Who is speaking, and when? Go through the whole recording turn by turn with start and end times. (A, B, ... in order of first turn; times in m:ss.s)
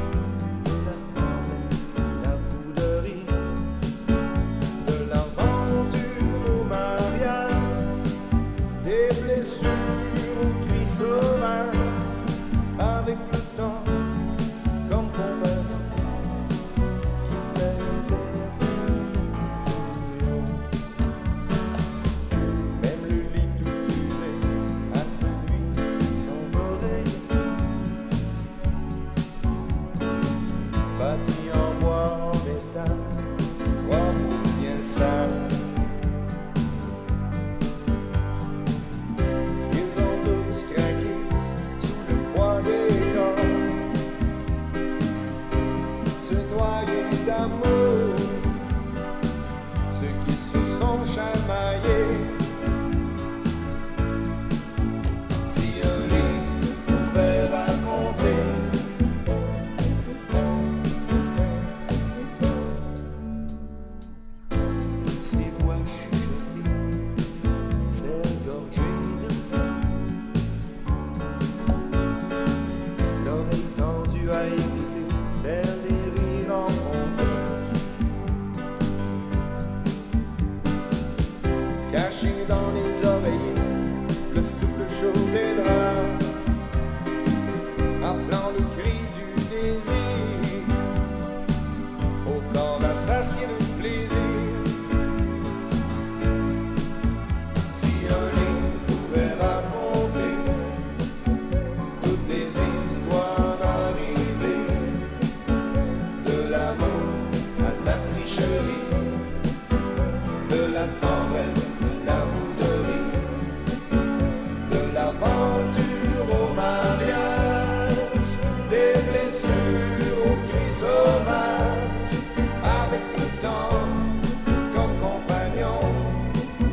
0:00.6-0:03.6 A
0:04.8-0:07.9 A
0:08.8-0:12.0 A
0:12.8-0:14.1 A
0:14.8-0:16.1 A
0:17.2-0:20.7 A
0:22.7-0:27.4 A
0:30.9-0:35.9 A
0:39.7-0:43.9 A
0:46.2-0:48.6 A
0:49.9-0:52.4 A
0:55.4-0:59.0 A
1:05.1-1:06.8 A
1:07.9-1:10.0 A
1:13.1-1:17.7 A
1:21.9-1:26.3 A
1:28.0-1:30.8 A
1:32.2-1:34.7 A
1:37.7-1:40.7 A
1:42.0-1:45.2 A
1:46.2-1:49.3 A
1:50.4-1:53.5 A
1:54.6-2:06.4 A